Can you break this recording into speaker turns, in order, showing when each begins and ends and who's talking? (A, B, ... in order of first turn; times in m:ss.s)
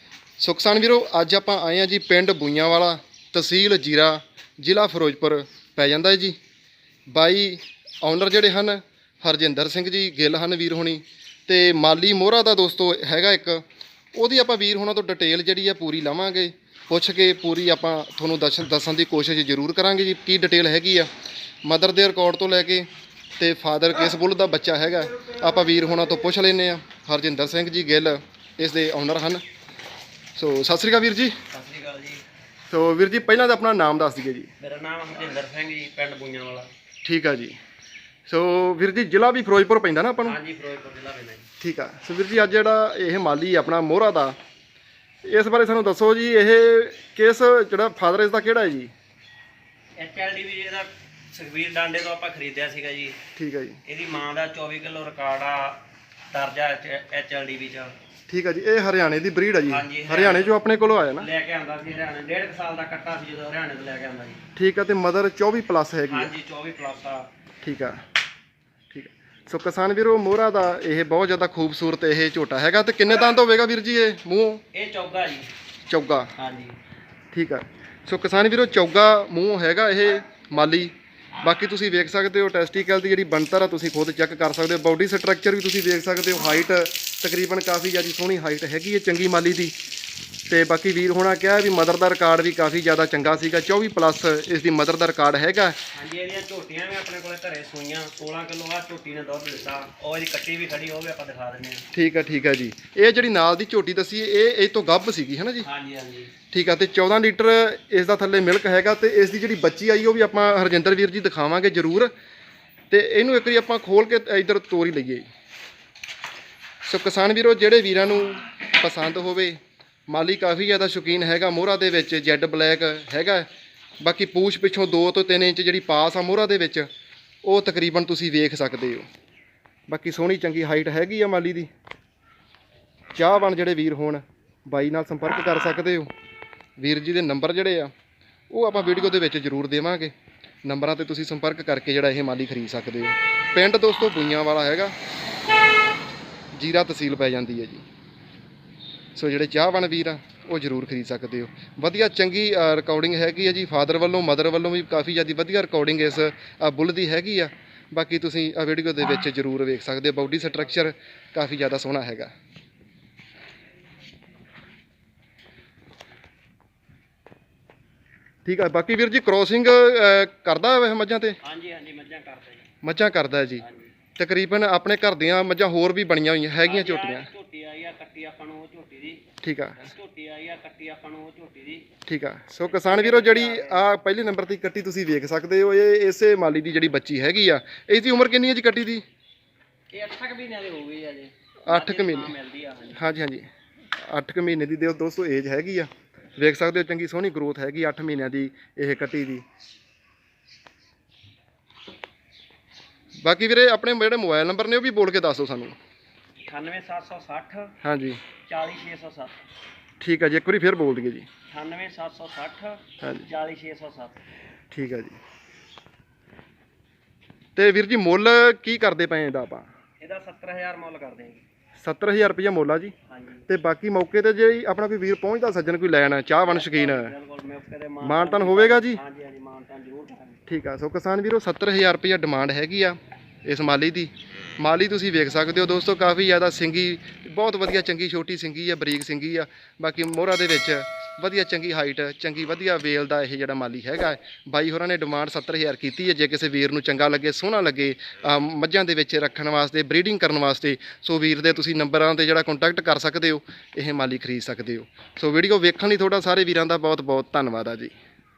0:00.4-0:06.4 A
0:07.1-0:21.1 A
0:21.6-0:29.4 A
0:30.3-0:31.3 A
0:31.5-0:32.2 B
0:32.7-0:34.5 A
0:34.6-0:36.7 B
0:37.0-0:37.6 A
0:38.3-0:40.4 A
0:40.2-0:41.5 B
0:41.6-0:44.4 A
0:45.2-0:48.9 A
0:50.0-0:53.2 B
0:53.4-0:53.8 A
0:53.8-0:55.8 B
0:56.3-0:57.9 B
0:58.3-1:01.3 A
0:59.6-1:00.6 B
1:01.2-1:04.4 B
1:04.6-1:06.3 A
1:06.1-1:07.3 B
1:07.6-1:08.0 A
1:08.9-1:14.6 A
1:14.7-1:15.5 B
1:15.9-1:16.3 A
1:16.4-1:16.8 B
1:17.3-1:29.7 A
1:30.5-1:35.8 A
1:35.9-1:41.8 B
1:41.9-1:45.7 A
1:45.6-1:46.3 B
1:46.5-1:52.1 A
1:52.9-1:55.3 A
1:56.8-2:03.5 A
2:04.0-2:06.9 A
2:07.4-2:09.0 A
2:09.9-2:11.7 A
2:13.1-2:16.1 A
2:16.8-2:17.9 A
2:18.5-2:20.1 A
2:20.6-2:24.9 A
2:26.5-2:27.8 A
2:29.1-2:42.3 A
2:48.4-2:51.4 A
2:51.4-2:52.7 B
2:52.8-2:53.6 A
2:53.6-2:53.9 B
2:54.2-2:57.3 A
2:56.6-2:59.2 B
2:59.4-2:59.9 A
2:59.8-3:01.9 B
3:02.1-3:09.0 A
3:02.6-3:03.8 B
3:09.9-3:13.1 B
3:11.7-3:12.3 A
3:12.9-3:13.5 A
3:14.0-3:19.4 A
3:23.2-3:25.8 A
3:26.4-3:27.7 B
3:27.8-3:28.2 A
3:28.5-3:29.4 B
3:30.0-3:31.3 A
3:31.5-3:34.2 B
3:34.7-3:35.2 A
3:37.6-3:39.7 A
3:40.0-3:41.4 B
3:41.8-3:42.9 A
3:43.1-3:43.4 B
3:43.5-3:47.1 A
3:46.2-3:50.4 B
3:48.0-3:49.0 A
3:50.5-4:17.9 A